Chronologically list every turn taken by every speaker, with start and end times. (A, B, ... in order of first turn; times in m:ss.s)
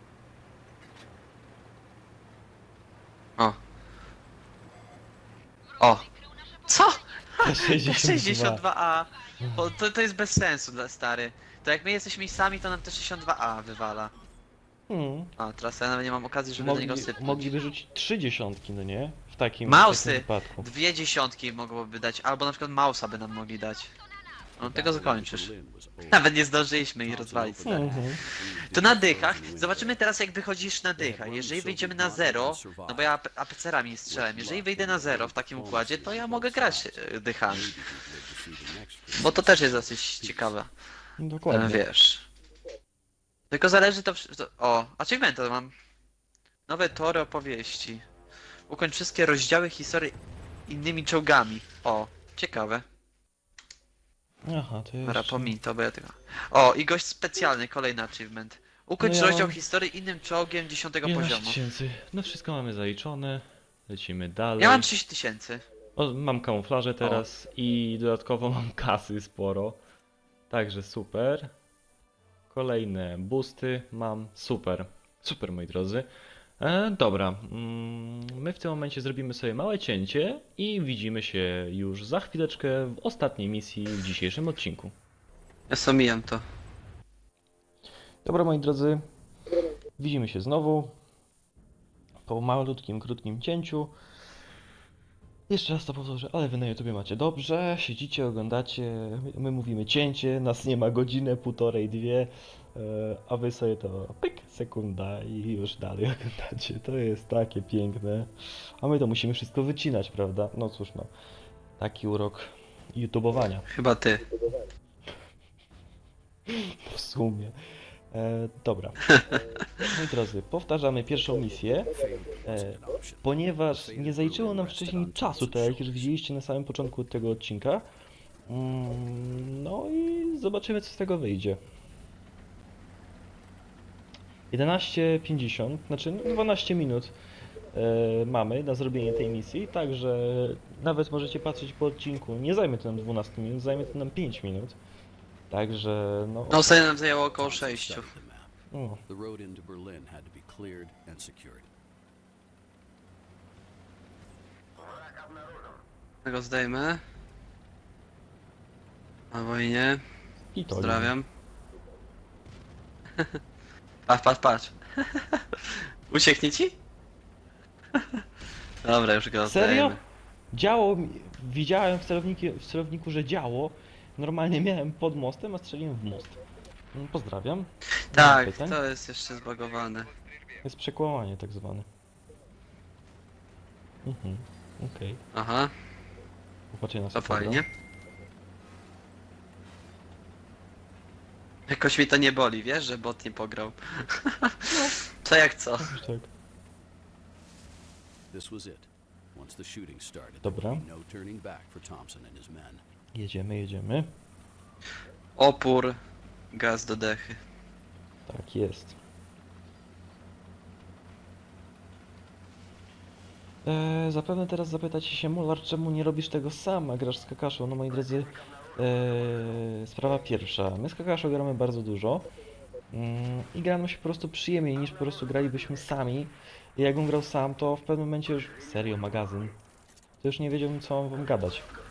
0:05.8-0:06.1 A
0:06.7-0:14.1 A
0:07.4-0:08.6 B
0:09.4-0:09.7 B
0:14.9-0:15.3 B
0:15.4-0:17.5 A
0:16.6-0:20.7 B
0:19.6-0:23.9 A
0:24.6-0:25.5 A
0:24.6-0:26.3 C
0:26.1-0:28.0 A
0:27.0-0:30.0 C
0:27.7-0:28.2 B
0:28.7-0:37.7 A
0:31.0-0:33.1 C
0:34.1-0:37.0 C
0:37.5-0:40.6 C
0:39.2-0:40.7 A
0:41.2-0:41.8 B
0:41.5-0:42.3 A
0:43.5-0:45.7 A
0:46.7-0:48.0 A
0:48.7-0:50.1 A
0:50.7-0:52.8 A
0:54.5-0:55.5 B
0:55.0-1:01.6 A
0:59.0-0:59.6 B
1:01.0-1:04.9 B
1:04.6-1:05.6 A
1:06.0-1:09.8 B
1:10.5-1:11.5 B
1:12.5-1:16.1 B
1:16.6-1:25.0 B
1:25.7-1:26.4 A
1:28.2-1:29.0 B
1:30.0-1:31.0 B
1:32.3-1:33.9 B
1:35.5-1:51.1 B
1:51.8-1:53.7 B
1:53.7-1:54.2 A
1:56.5-1:57.6 B
1:58.1-1:59.0 B
1:59.1-1:59.9 A
1:59.8-2:01.9 B
2:01.9-2:06.2 C
2:02.4-2:07.9 B
2:08.5-2:11.6 B
2:14.5-2:17.2 B
2:17.7-2:24.8 B
2:25.5-2:26.7 B
2:26.5-2:28.1 A
2:27.4-2:28.5 C
2:28.7-2:29.0 B
2:29.1-2:31.7 C
2:36.2-2:37.0 A
2:39.3-2:40.0 A
2:40.5-2:41.1 B
2:40.7-2:41.2 A
2:44.1-2:46.8 A
2:48.0-2:48.2 A
2:48.8-2:50.0 A
2:49.4-2:50.0 B
2:50.5-2:56.4 B
2:56.9-2:58.8 B
2:58.1-3:00.1 A
3:00.6-3:01.9 B
3:04.0-3:05.2 B
3:05.3-3:05.7 A
3:06.7-3:07.6 B
3:07.2-3:07.6 A
3:11.7-3:15.9 A
3:14.7-3:15.0 B
3:15.8-3:16.3 B
3:18.3-3:22.8 C
3:20.4-3:20.9 B
3:23.2-3:24.1 B
3:25.4-3:26.0 A
3:26.5-3:27.4 A
3:28.3-3:29.0 B
3:33.7-3:42.3 B
3:42.9-3:49.6 B
3:50.2-3:51.7 B